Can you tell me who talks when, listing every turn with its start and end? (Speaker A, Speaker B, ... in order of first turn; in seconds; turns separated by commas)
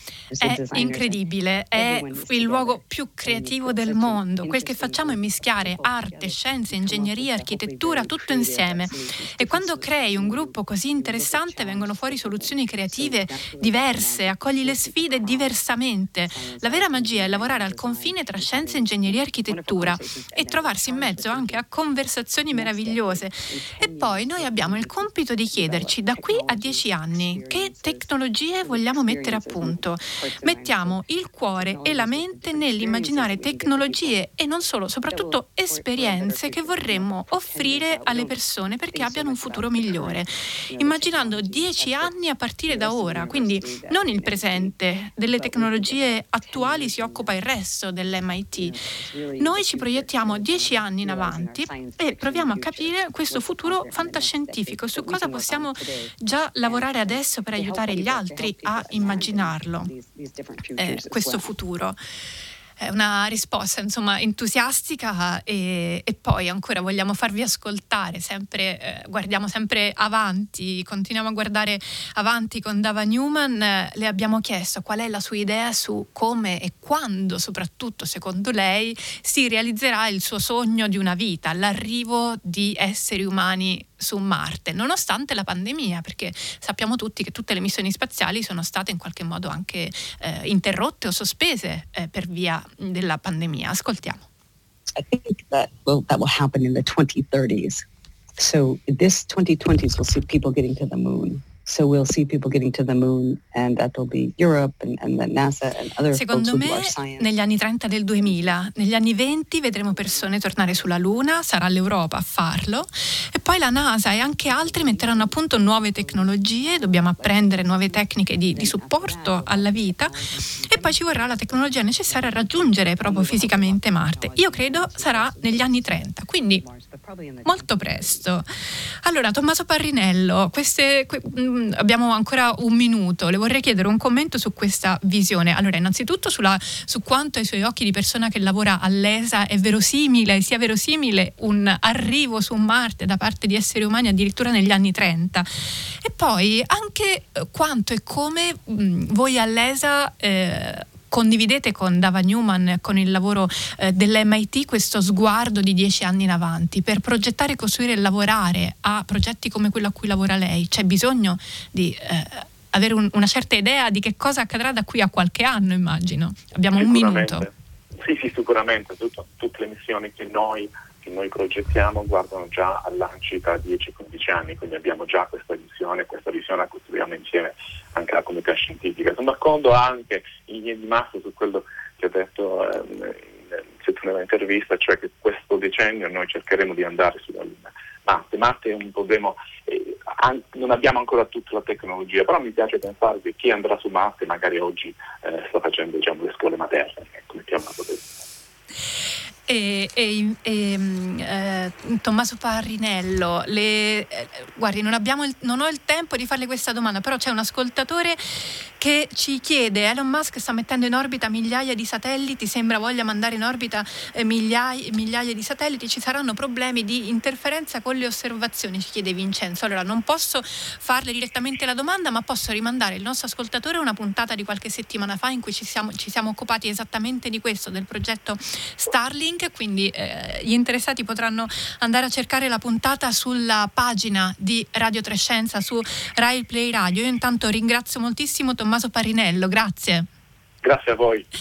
Speaker A: 0.3-1.2, Speaker B: 0.4-48.8, Speaker A: 1.7-15.6, Speaker A: 16.2-21.6, Speaker A: 22.5-34.2, Speaker A: 35.1-38.4, Speaker A: 38.9-42.1, Speaker A: 42.7-47.4, Speaker A: 48.5-61.5, Speaker B: 49.4-59.9, Speaker B: 60.8-62.0, Speaker B: 62.8-94.2, Speaker A: 94.9-97.8, Speaker A: 98.4-107.3, Speaker B: 106.1-126.6, Speaker A: 108.2-108.6, Speaker A: 109.8-111.3, Speaker A: 114.4-128.3, Speaker B: 127.4-128.4, Speaker B: 129.0-167.5, Speaker C: 166.8-198.0, Speaker B: 199.5-240.1, Speaker C: 240.6-241.3